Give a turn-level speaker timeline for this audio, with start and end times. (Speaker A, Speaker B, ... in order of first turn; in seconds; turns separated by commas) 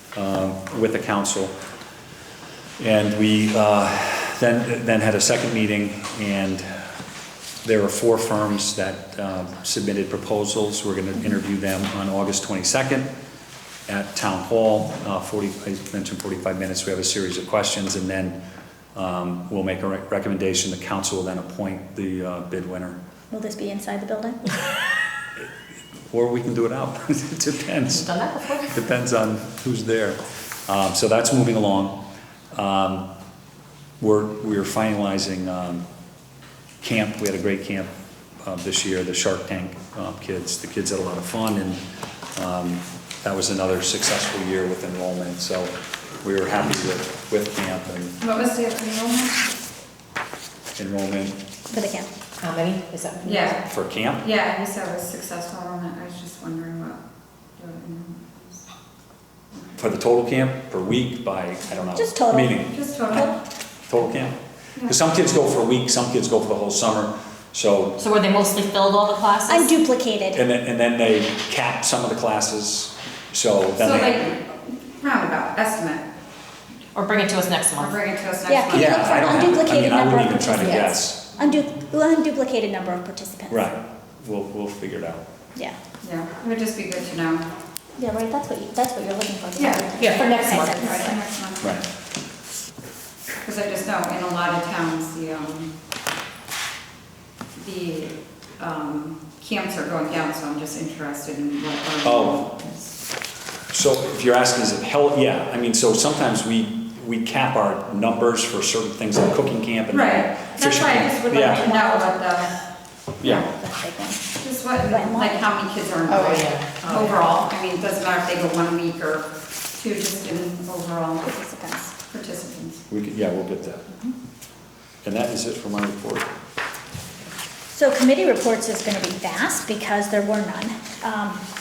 Speaker A: 0.1-1.5, Speaker A: 2.8-6.7, Speaker A: 7.6-13.1, Speaker A: 13.9-18.4, Speaker A: 18.9-23.0, Speaker B: 23.3-24.4, Speaker A: 26.1-28.1, Speaker C: 27.9-28.7, Speaker A: 28.7-32.0, Speaker A: 32.5-33.1, Speaker A: 34.0-35.8, Speaker A: 36.8-37.9, Speaker A: 38.4-41.8, Speaker A: 42.4-48.2, Speaker D: 48.2-49.5, Speaker A: 50.8-51.4, Speaker B: 51.7-52.1, Speaker C: 52.4-53.6, Speaker D: 53.2-53.6, Speaker A: 53.7-54.2, Speaker D: 54.2-57.0, Speaker D: 57.6-58.6, Speaker A: 59.8-68.0, Speaker B: 61.7-63.3, Speaker D: 62.7-63.3, Speaker C: 68.0-69.7, Speaker B: 69.5-70.4, Speaker A: 70.3-74.2, Speaker D: 73.8-76.1, Speaker C: 76.9-77.9, Speaker D: 77.8-79.4, Speaker B: 78.5-83.7, Speaker A: 78.7-81.2, Speaker A: 83.5-85.2, Speaker D: 86.0-87.5, Speaker B: 88.0-91.2, Speaker D: 89.5-91.8, Speaker C: 90.0-90.9, Speaker D: 93.4-95.7, Speaker D: 97.6-102.9, Speaker A: 102.0-102.5, Speaker A: 103.7-111.7, Speaker D: 109.9-112.5, Speaker B: 110.6-112.6, Speaker A: 113.2-113.5, Speaker B: 113.3-114.2, Speaker D: 114.4-122.8, Speaker B: 114.8-115.5, Speaker C: 116.1-116.9, Speaker B: 121.2-121.9, Speaker A: 122.9-123.9, Speaker A: 125.0-126.3, Speaker B: 127.7-131.4